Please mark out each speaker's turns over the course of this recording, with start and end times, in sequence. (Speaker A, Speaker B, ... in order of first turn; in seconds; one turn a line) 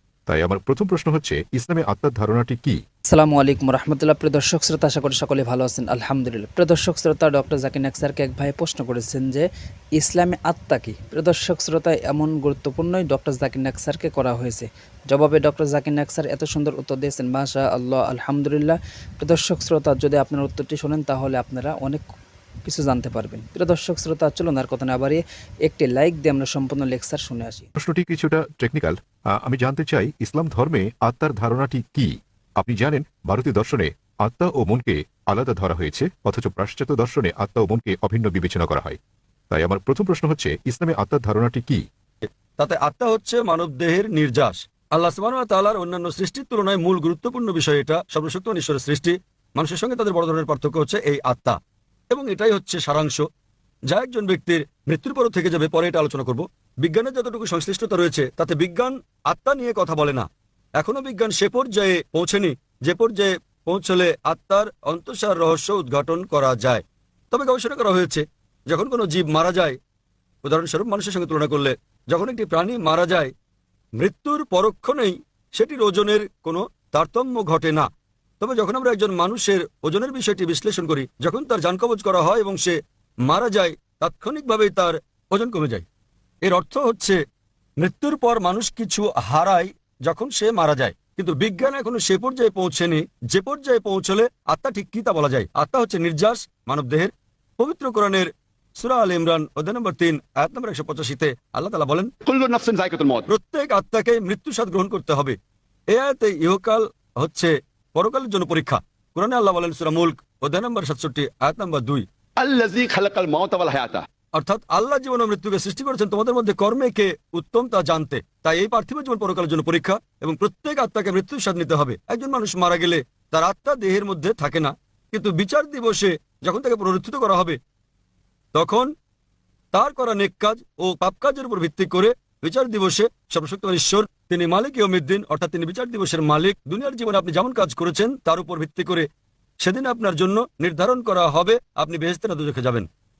Speaker A: 0.3-2.8
Speaker B: 3.1-9.4
Speaker B: 10.0-22.1
Speaker B: 22.6-27.7
Speaker A: 27.8-39.0
Speaker A: 39.5-41.8
Speaker C: 42.2-51.6
Speaker C: 52.1-53.2
Speaker C: 53.9-60.3
Speaker C: 60.8-69.8
Speaker C: 70.4-73.3
Speaker C: 74.0-77.9
Speaker C: 78.4-85.8
Speaker C: 86.4-87.2
Speaker C: 87.8-102.1
Speaker D: 102.3-103.2
Speaker C: 103.3-105.4
Speaker C: 105.9-112.0
Speaker D: 112.4-114.0
Speaker C: 114.3-127.6
Speaker C: 128.5-128.9
Speaker C: 129.7-139.1
Speaker C: 139.6-142.9